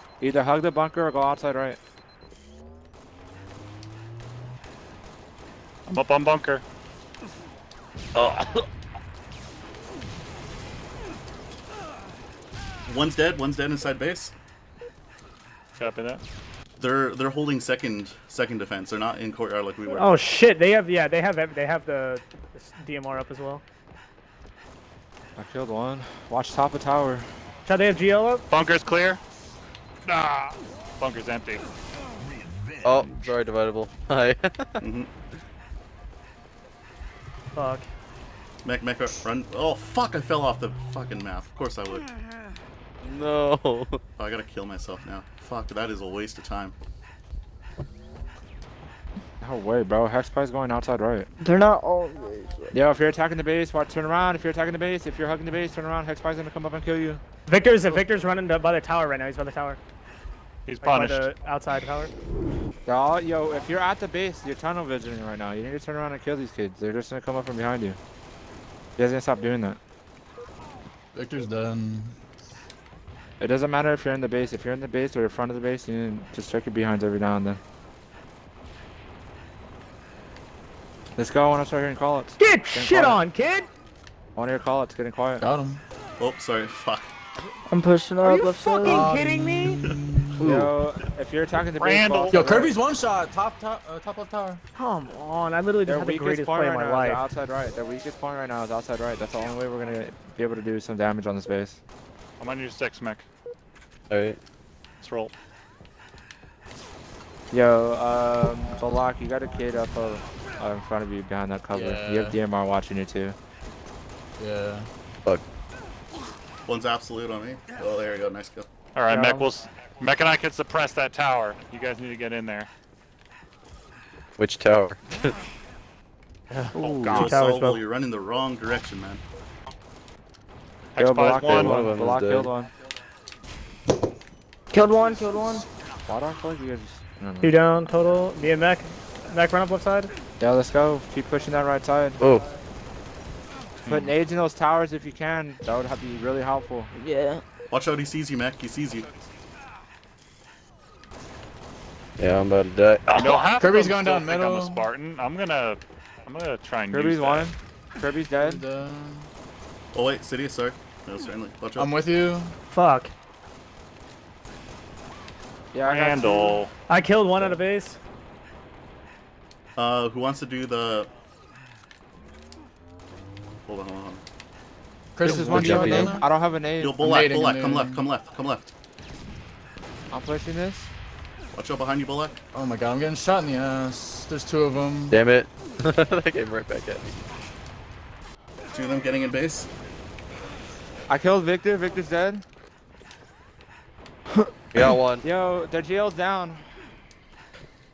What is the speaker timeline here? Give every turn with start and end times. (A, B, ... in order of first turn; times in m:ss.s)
0:00.2-0:01.8 A
0:05.9-0:06.6 B
0:08.2-0:08.6 B
0:12.9-0:14.3 C
0:15.8-0:16.2 B
0:16.8-0:20.1 C
0:20.0-0:23.6 D
0:25.4-0:27.3 A
0:27.7-0:28.4 D
0:28.5-0:29.2 B
0:30.1-0:31.6 B
0:32.8-0:34.8 E
0:34.8-0:35.1 C
0:37.6-0:37.9 D
0:38.6-0:42.1 C
0:43.0-0:44.0 E
0:44.2-0:46.8 C
0:49.4-0:51.3 A
0:51.4-0:52.7 F
0:52.7-0:57.2 A
0:57.5-0:59.8 D
1:00.7-1:01.3 B
1:00.8-1:02.1 D
1:02.9-1:08.0 A
1:09.0-1:09.8 A
1:11.1-1:12.2 G
1:13.4-1:17.6 A
1:21.2-1:23.2 A
1:22.4-1:23.7 D
1:24.4-1:25.5 A
1:25.4-1:25.8 G
1:26.2-1:27.1 C
1:27.7-1:29.2 F
1:28.2-1:29.8 D
1:28.8-1:30.7 G
1:30.4-1:32.7 A
1:31.8-1:32.4 B
1:32.3-1:34.6 G
1:34.8-1:37.2 D
1:35.8-1:41.8 A
1:42.4-1:43.2 B
1:44.1-1:44.4 E
1:45.0-1:45.3 B
1:47.5-1:53.4 A
1:51.7-1:52.4 G
1:54.4-1:54.9 G
1:56.7-1:58.7 C
1:59.0-2:02.7 B
1:59.1-1:59.5 D
2:04.4-2:05.4 E
2:06.5-2:07.8 D
2:06.8-2:07.3 A
2:07.1-2:09.2 C
2:11.0-2:11.8 B
2:11.0-2:12.7 A
2:11.4-2:12.5 E
2:14.7-2:15.7 F
2:16.1-2:17.9 A
2:17.4-2:20.1 D
2:20.4-2:22.2 A
2:22.2-2:22.4 E
2:23.9-2:26.9 A
2:26.9-2:27.4 F
2:27.7-2:29.1 C
2:32.2-2:33.6 E
2:33.1-2:37.5 B
2:33.6-2:34.9 G
2:36.9-2:38.6 A
2:38.4-2:39.3 G
2:39.9-2:42.0 C
2:41.8-2:42.6 G
2:42.7-2:43.1 D
2:45.7-2:46.6 A
2:45.8-2:46.7 B
2:46.9-2:48.0 D
2:49.8-2:51.1 C
2:53.7-2:54.2 C
2:55.2-2:56.3 G
2:55.2-2:57.0 A
2:55.2-2:56.2 E
2:56.8-2:58.7 C
2:57.0-2:58.0 G
3:00.1-3:00.9 A
3:01.5-3:02.4 C
3:02.5-3:05.2 G
3:05.1-3:07.2 E
3:08.7-3:09.7 C
3:11.1-3:12.4 A
3:14.3-3:14.8 F
3:14.7-3:15.3 E
3:15.2-3:16.6 A